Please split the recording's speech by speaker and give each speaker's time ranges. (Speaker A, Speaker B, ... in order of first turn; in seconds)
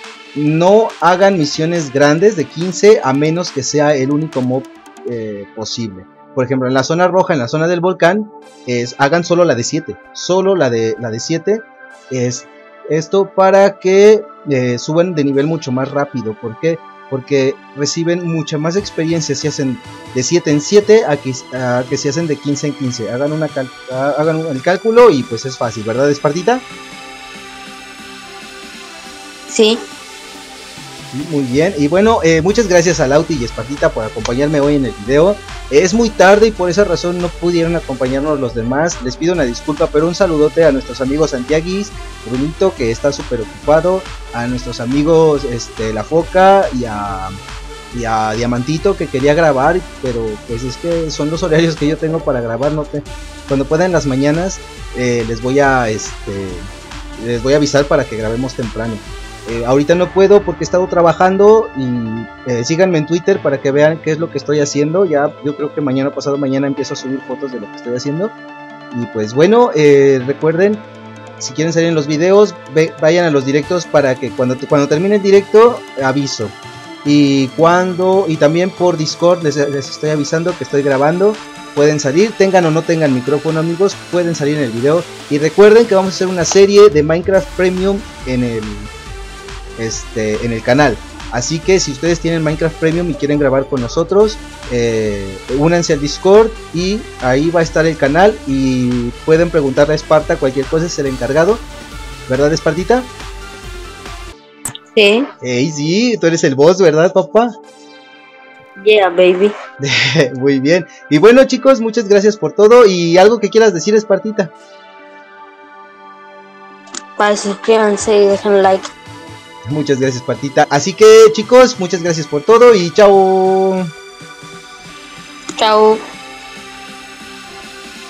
Speaker A: 0.3-26.6, 31.1-47.3, 47.9-68.3, 68.9-70.8, 71.4-88.9, 89.8-101.6, 102.3-103.1, 105.4-107.5, 109.8-114.5, 119.7-123.9
Speaker B: 29.5-29.8, 104.9-105.3, 108.8-109.5, 117.2-118.9, 125.6-126.0